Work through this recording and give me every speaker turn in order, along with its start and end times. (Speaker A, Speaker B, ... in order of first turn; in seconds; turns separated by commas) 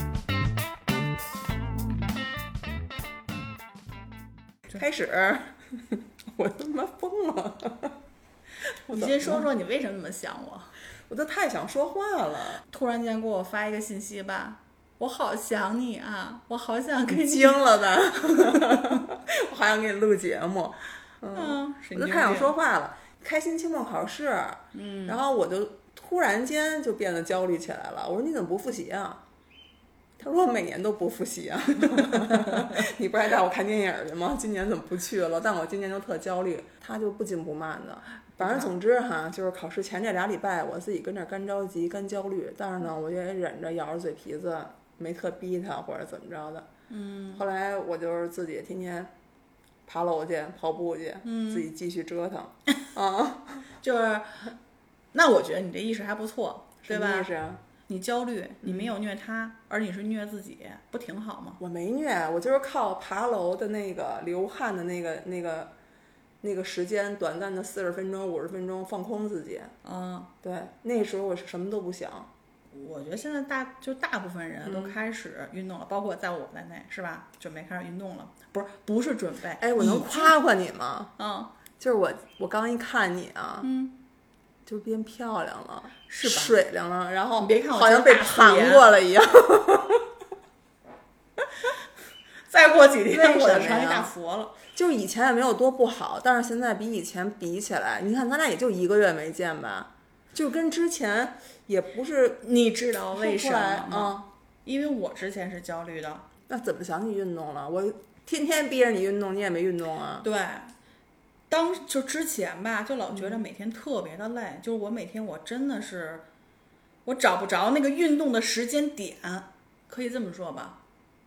Speaker A: 4.7-8.0, Speaker A: 8.9-9.5, Speaker B: 8.9-10.7, Speaker A: 11.1-12.6, Speaker B: 12.7-17.6, Speaker A: 17.1-29.2, Speaker B: 18.2-19.0, Speaker B: 21.3-22.5, Speaker B: 24.7-25.2, Speaker A: 30.2-46.7, Speaker B: 32.1-32.6, Speaker B: 38.4-38.7, Speaker B: 46.9-47.4, Speaker A: 47.3-49.1, Speaker A: 49.9-53.6, Speaker B: 51.2-51.7, Speaker B: 53.8-54.5, Speaker B: 55.1-57.3, Speaker A: 56.8-57.6, Speaker B: 57.9-61.6, Speaker A: 58.6-58.9, Speaker A: 61.6-65.7, Speaker A: 66.4-69.7, Speaker B: 69.8-70.3, Speaker A: 70.4-72.3, Speaker B: 72.7-80.3, Speaker A: 74.6-75.0, Speaker A: 79.6-81.1, Speaker B: 81.2-81.5, Speaker A: 81.8-83.7, Speaker B: 83.6-84.0, Speaker A: 84.7-90.0, Speaker B: 86.1-86.6, Speaker B: 87.4-88.9, Speaker B: 92.5-94.5, Speaker A: 93.1-94.1, Speaker A: 94.7-102.4, Speaker B: 102.4-106.2, Speaker A: 103.1-104.3, Speaker A: 106.5-110.2, Speaker B: 110.2-110.7, Speaker B: 111.5-116.2, Speaker A: 113.1-113.4, Speaker B: 117.0-120.8